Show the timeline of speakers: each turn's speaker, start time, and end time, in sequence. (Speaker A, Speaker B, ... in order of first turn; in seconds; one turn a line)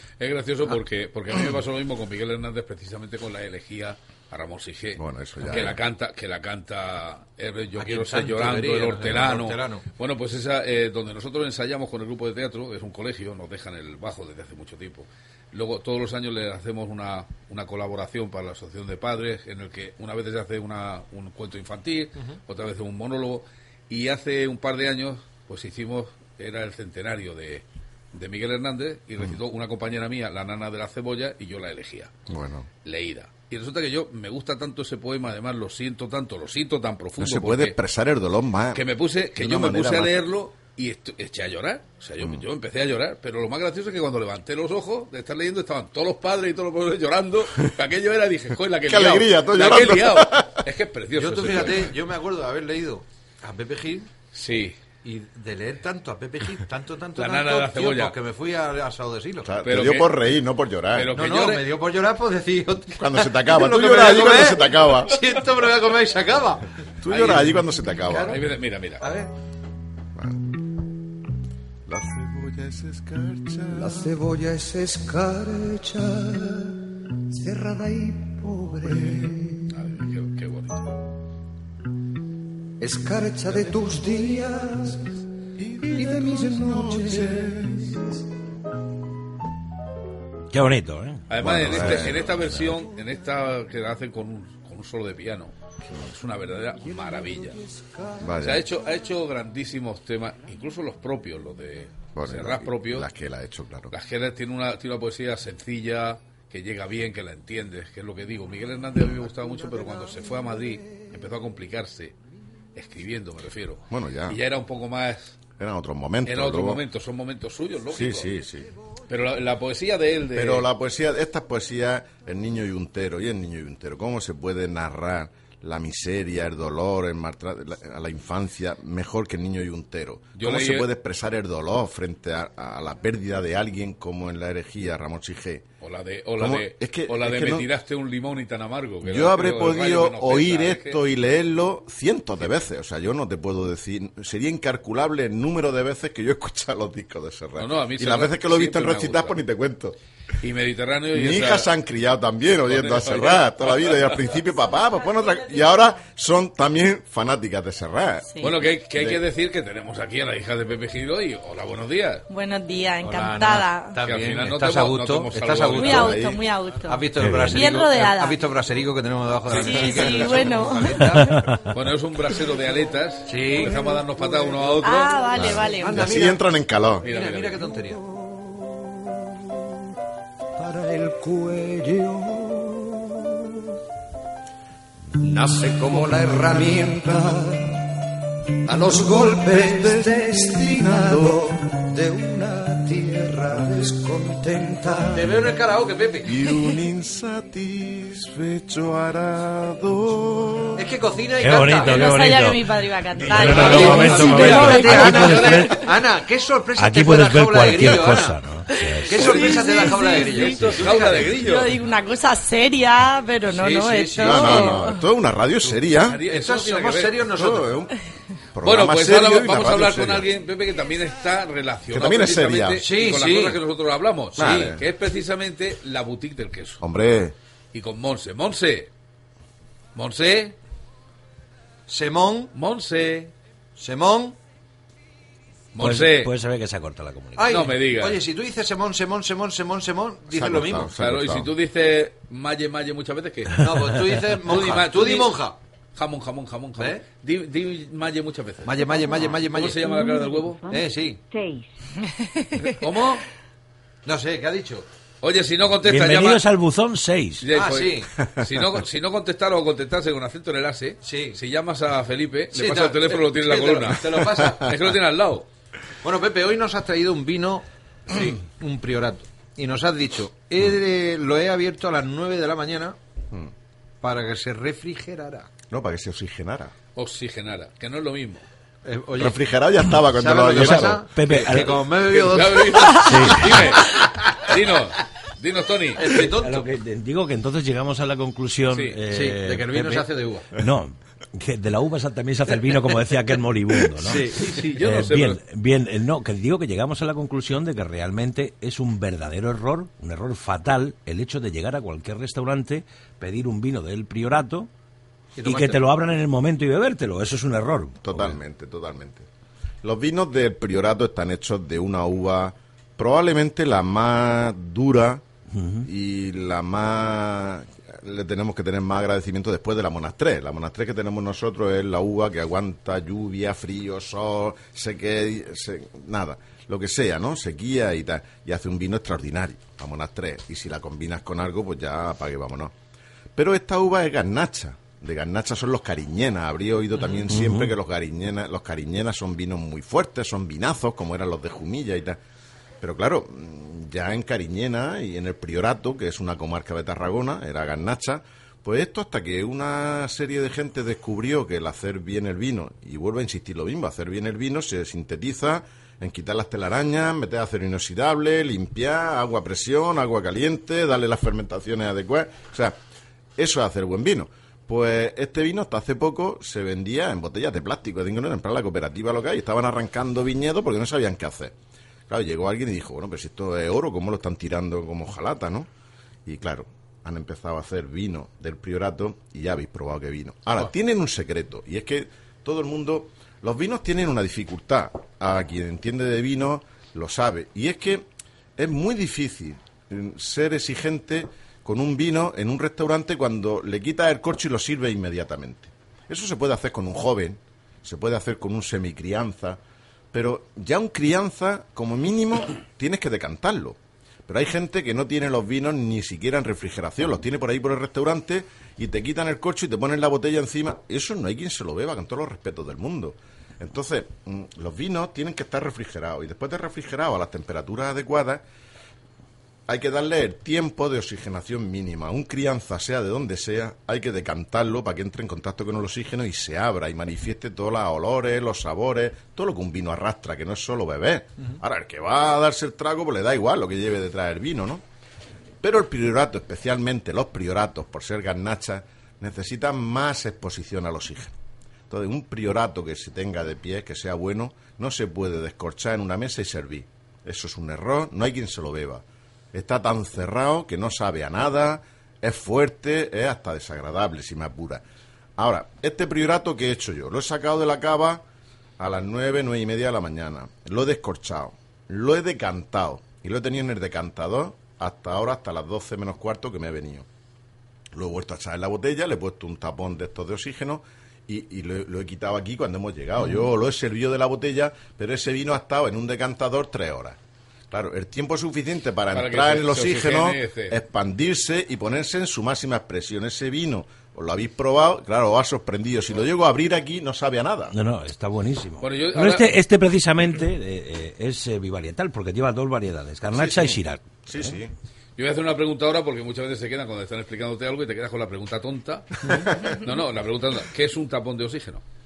Speaker A: 0.2-32.1
Speaker B: 5.0-5.8
Speaker C: 7.8-9.8
Speaker B: 32.3-32.7
Speaker A: 32.9-37.8
Speaker B: 37.2-40.2
Speaker A: 38.7-51.9
Speaker B: 42.1-42.4
Speaker B: 48.9-50.6
Speaker C: 51.1-54.1
Speaker A: 54.3-54.8
Speaker C: 55.0-59.5
Speaker A: 57.2-58.1
Speaker B: 59.5-61.1
Speaker A: 59.6-60.1
Speaker A: 60.9-61.6
Speaker C: 61.1-66.6
Speaker B: 63.0-65.2
Speaker B: 67.0-68.4
Speaker A: 67.1-69.1
Speaker C: 68.1-68.4
Speaker C: 69.0-69.3
Speaker B: 71.9-74.1
Speaker D: 73.7-76.7
Speaker D: 77.3-79.6
Speaker B: 78.9-79.3
Speaker A: 79.7-80.9
Speaker D: 82.8-85.0
Speaker B: 85.6-88.0
Speaker D: 85.8-88.0
Speaker E: 90.5-92.8
Speaker A: 91.3-97.6
Speaker B: 91.4-92.3
Speaker D: 96.8-98.3
Speaker B: 98.2-98.7
Speaker A: 98.4-103.1
Speaker B: 102.2-103.9
Speaker A: 103.9-112.1
Speaker A: 112.8-115.4
Speaker B: 113.9-114.4
Speaker B: 115.6-116.8
Speaker A: 116.2-118.3
Speaker B: 117.9-118.7
Speaker A: 119.1-120.7
Speaker B: 120.3-135.7
Speaker A: 130.4-130.9
Speaker A: 135.8-141.0
Speaker B: 136.4-137.7
Speaker B: 139.0-150.0
Speaker A: 147.6-149.4
Speaker A: 150.4-151.7
Speaker B: 151.1-158.3
Speaker A: 152.6-154.3
Speaker F: 155.0-155.8
Speaker A: 158.4-162.2
Speaker B: 159.0-159.2
Speaker F: 162.3-164.0
Speaker C: 163.0-166.2
Speaker A: 164.0-166.2
Speaker F: 165.8-168.4
Speaker B: 165.9-166.4
Speaker C: 166.8-171.5
Speaker E: 167.2-167.6
Speaker A: 169.5-170.6
Speaker F: 169.6-171.3
Speaker E: 171.1-171.7
Speaker A: 171.7-175.6
Speaker C: 173.3-174.0
Speaker D: 174.2-174.5
Speaker F: 174.8-176.0
Speaker C: 175.0-176.4
Speaker B: 175.3-177.1
Speaker C: 177.0-178.0
Speaker A: 177.0-177.6
Speaker D: 177.8-179.0
Speaker D: 180.6-183.1
Speaker D: 185.2-187.8
Speaker D: 188.7-195.5
Speaker B: 189.1-191.4
Speaker C: 195.2-196.3
Speaker B: 196.3-200.9
Speaker C: 200.8-202.1
Speaker E: 201.4-205.9
Speaker F: 201.8-205.4
Speaker A: 203.2-205.8
Speaker C: 203.4-208.4
Speaker E: 206.8-209.6
Speaker F: 208.7-215.0
Speaker C: 209.1-211.3
Speaker A: 209.2-211.7
Speaker C: 213.5-214.8
Speaker B: 214.2-216.2
Speaker A: 215.9-217.2
Speaker C: 216.3-217.8
Speaker B: 217.3-217.9
Speaker B: 218.5-220.3
Speaker A: 218.6-226.8
Speaker B: 221.9-222.8
Speaker C: 222.8-223.6
Speaker B: 224.4-224.8
Speaker B: 226.8-227.3
Speaker A: 227.7-228.9
Speaker A: 229.9-230.6
Speaker C: 231.9-232.5
Speaker A: 232.5-233.3
Speaker C: 233.8-234.4
Speaker A: 235.8-236.3
Speaker E: 235.8-237.7
Speaker C: 237.4-240.9
Speaker A: 237.5-238.2
Speaker B: 240.3-241.5
Speaker A: 240.9-243.7
Speaker C: 243.6-245.6
Speaker A: 244.4-245.3
Speaker A: 246.0-250.7
Speaker C: 246.8-247.0
Speaker C: 248.7-249.9
Speaker C: 250.6-251.2
Speaker F: 252.0-252.6
Speaker A: 252.7-253.2
Speaker C: 254.1-254.9
Speaker A: 255.2-256.4
Speaker E: 255.8-257.5
Speaker A: 257.4-265.5
Speaker C: 257.5-258.1
Speaker C: 261.0-261.4
Speaker C: 262.5-264.7
Speaker C: 266.0-273.0
Speaker C: 274.0-275.5
Speaker B: 275.7-276.7
Speaker A: 277.0-278.4
Speaker C: 278.9-279.4
Speaker B: 279.2-281.1
Speaker C: 280.2-284.6
Speaker E: 280.5-282.0
Speaker A: 281.3-286.2
Speaker E: 282.9-283.8
Speaker C: 286.0-286.7
Speaker E: 286.3-304.7
Speaker A: 288.7-289.0
Speaker C: 289.1-290.5
Speaker C: 294.0-294.8
Speaker A: 294.3-295.4
Speaker C: 305.4-305.8
Speaker E: 305.4-308.4
Speaker B: 308.0-309.3
Speaker B: 309.8-315.2
Speaker E: 315.5-315.9
Speaker B: 315.8-332.7
Speaker B: 333.4-342.2
Speaker E: 337.3-337.7
Speaker B: 342.8-362.8
Speaker B: 363.4-371.6
Speaker B: 372.1-375.7
Speaker B: 376.3-399.6
Speaker B: 400.1-418.4
Speaker B: 419.7-434.8
Speaker B: 435.6-441.4
Speaker B: 441.9-454.8
Speaker B: 455.4-458.2
Speaker B: 458.8-467.1
Speaker B: 467.9-477.2
Speaker B: 477.7-487.8
Speaker A: 479.1-480.8
Speaker E: 487.7-494.6
Speaker A: 488.8-489.5
Speaker B: 493.3-494.7
Speaker A: 495.2-499.2
Speaker A: 499.7-501.8